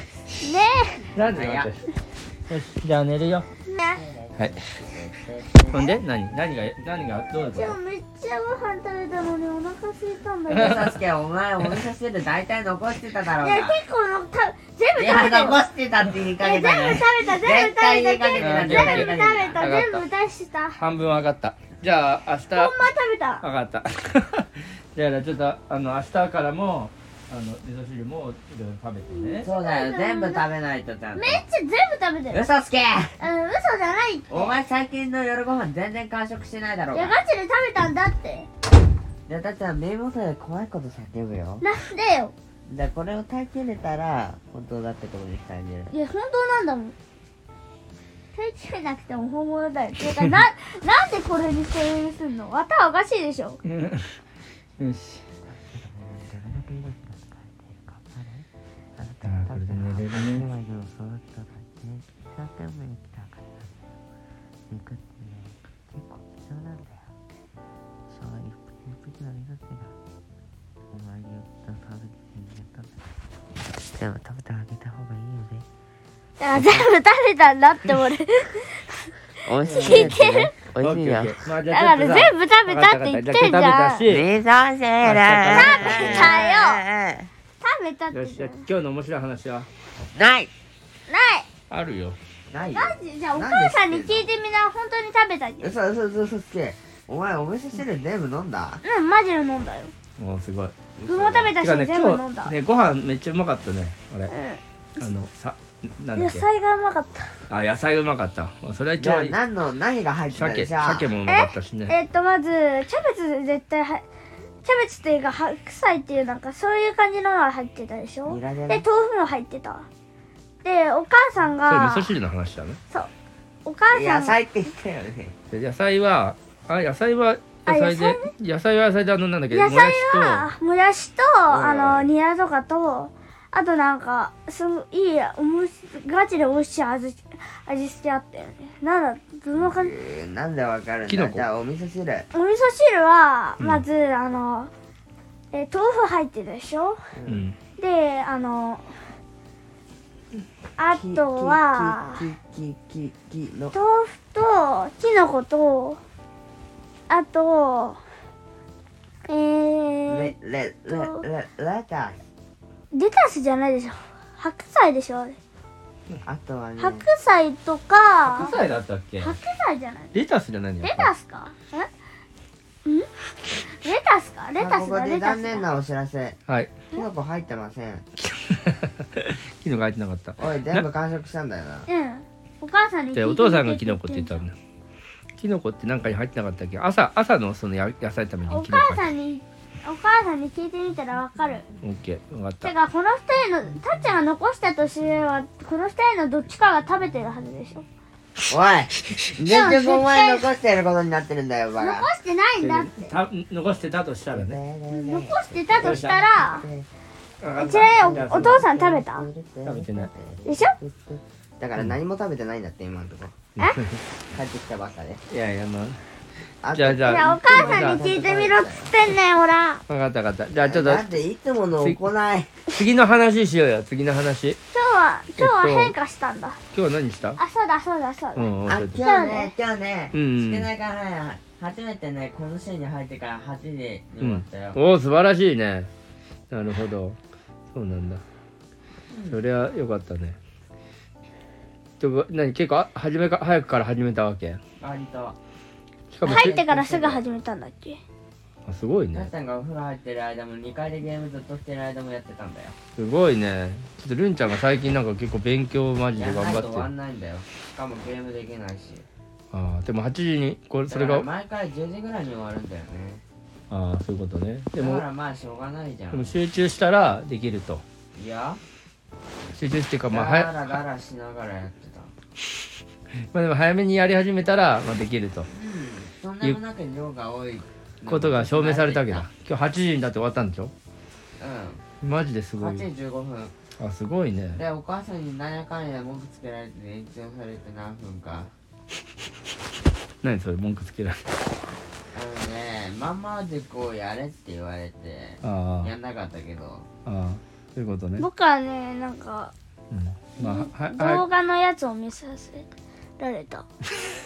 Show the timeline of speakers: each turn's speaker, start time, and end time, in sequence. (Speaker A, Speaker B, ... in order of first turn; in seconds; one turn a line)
Speaker A: 0.4-1.0
Speaker B: 1.1-1.9
Speaker C: 1.3-1.7
Speaker B: 2.5-3.5
Speaker A: 3.6-4.0
Speaker C: 4.0-6.0
Speaker B: 5.7-7.8
Speaker A: 7.3-10.8
Speaker C: 10.5-13.8
Speaker B: 10.5-10.9
Speaker A: 13.4-15.6
Speaker C: 14.9-19.6
Speaker A: 16.4-20.8
Speaker B: 18.4-20.0
Speaker B: 20.8-22.7
Speaker A: 22.5-23.4
Speaker B: 23.4-29.5
Speaker A: 29.2-30.4
Speaker C: 29.4-31.4
Speaker A: 31.1-32.5
Speaker C: 32.3-33.2
Speaker A: 33.2-34.5
Speaker C: 34.3-37.2
Speaker A: 36.9-38.5
Speaker C: 39.3-41.6
Speaker A: 41.6-42.3
Speaker C: 42.7-45.9
Speaker A: 45.9-46.9
Speaker A: 48.3-53.6
Speaker B: 53.6-54.1
Speaker B: 54.8-55.2
Speaker C: 55.5-63.7
Speaker B: 59.2-60.5
Speaker C: 64.7-67.1
Speaker C: 68.1-69.9
Speaker C: 70.9-72.9
Speaker C: 73.9-75.7
Speaker A: 76.4-79.1
Speaker C: 76.5-76.9
Speaker C: 79.4-81.4
Speaker A: 79.6-80.5
Speaker B: 80.8-84.3
Speaker A: 81.7-84.0
Speaker C: 84.1-87.3
Speaker B: 85.0-86.2
Speaker A: 85.5-86.8
Speaker A: 87.6-88.7
Speaker B: 88.1-89.7
Speaker C: 90.1-90.5
Speaker A: 91.1-91.5
Speaker B: 91.7-92.2
Speaker C: 92.5-94.3
Speaker A: 92.7-95.7
Speaker C: 95.6-98.8
Speaker A: 98.8-99.9
Speaker B: 100.2-100.7
Speaker C: 101.0-101.5
Speaker A: 101.1-102.5
Speaker B: 101.6-104.3
Speaker A: 104.3-104.6
Speaker B: 105.0-106.5
Speaker A: 106.1-107.3
Speaker B: 107.5-109.4
Speaker C: 109.0-111.1
Speaker B: 110.3-112.0
Speaker A: 111.2-114.0
Speaker A: 114.6-119.9
Speaker C: 118.2-118.8
Speaker A: 120.6-122.2
Speaker B: 121.7-122.8
Speaker A: 123.6-124.3
Speaker C: 123.9-125.3
Speaker B: 125.5-130.5
Speaker A: 127.7-128.3
Speaker A: 129.5-139.9
Speaker C: 131.5-132.1
Speaker C: 139.5-142.3
Speaker B: 141.1-141.5
Speaker A: 142.3-144.7
Speaker B: 143.6-143.8
Speaker A: 145.5-147.0
Speaker C: 147.2-147.4
Speaker B: 147.3-147.6
Speaker A: 147.8-149.2
Speaker A: 150.8-152.3
Speaker C: 150.9-153.7
Speaker A: 153.7-156.0
Speaker A: 157.1-158.0
Speaker A: 159.2-160.3
Speaker C: 160.1-162.2
Speaker A: 160.9-161.2
Speaker A: 162.9-165.4
Speaker C: 166.2-167.0
Speaker A: 166.8-168.6
Speaker B: 168.2-169.4
Speaker A: 169.2-170.2
Speaker B: 170.1-171.1
Speaker A: 170.8-171.9
Speaker A: 173.6-175.7
Speaker C: 174.6-176.4
Speaker B: 176.5-176.7
Speaker C: 176.9-178.0
Speaker B: 178.2-180.9
Speaker C: 180.4-181.9
Speaker A: 181.9-184.4
Speaker B: 183.1-184.5
Speaker B: 185.3-189.1
Speaker A: 188.5-191.6
Speaker B: 191.8-192.7
Speaker A: 192.6-197.8
Speaker C: 198.5-202.1
Speaker A: 199.5-200.5
Speaker A: 201.8-203.1
Speaker B: 202.6-204.6
Speaker C: 204.3-206.9
Speaker A: 204.9-206.7
Speaker B: 205.7-206.2
Speaker B: 207.4-208.7
Speaker A: 207.5-209.3
Speaker C: 207.5-213.5
Speaker B: 209.6-210.1
Speaker A: 210.4-210.7
Speaker B: 213.6-214.0
Speaker C: 214.3-215.2
Speaker B: 215.3-216.0
Speaker C: 216.6-218.9
Speaker B: 216.7-218.1
Speaker A: 216.9-219.8
Speaker B: 219.9-221.2
Speaker C: 220.6-222.5
Speaker B: 222.7-224.6
Speaker A: 224.7-226.6
Speaker B: 225.4-225.9
Speaker B: 226.7-227.4
Speaker A: 227.3-228.5
Speaker B: 228.3-229.0
Speaker C: 228.7-234.8
Speaker A: 229.0-229.5
Speaker B: 230.1-230.7
Speaker B: 234.2-235.9
Speaker B: 236.5-237.2
Speaker B: 237.7-238.2
Speaker C: 239.1-239.4
Speaker B: 239.3-240.4
Speaker B: 242.0-244.6
Speaker C: 244.8-245.4
Speaker B: 246.1-246.6
Speaker A: 246.2-248.0
Speaker C: 246.2-247.2
Speaker B: 248.6-249.3
Speaker C: 249.1-252.7
Speaker B: 252.9-256.9
Speaker C: 256.1-259.0
Speaker B: 259.5-261.3
Speaker C: 260.9-263.2
Speaker B: 263.7-265.0
Speaker C: 264.7-266.3
Speaker B: 266.1-267.8
Speaker C: 268.1-268.6
Speaker B: 269.5-270.8
Speaker C: 270.1-272.1
Speaker B: 273.3-275.5
Speaker C: 275.5-279.3
Speaker B: 278.1-280.7
Speaker C: 281.4-281.8
Speaker B: 282.0-282.9
Speaker C: 282.6-283.5
Speaker B: 283.8-284.6
Speaker C: 284.5-288.5
Speaker B: 290.2-291.2
Speaker C: 292.1-296.9
Speaker B: 295.4-295.9
Speaker B: 297.1-298.3
Speaker A: 298.2-299.5
Speaker B: 299.9-301.2
Speaker A: 300.4-303.7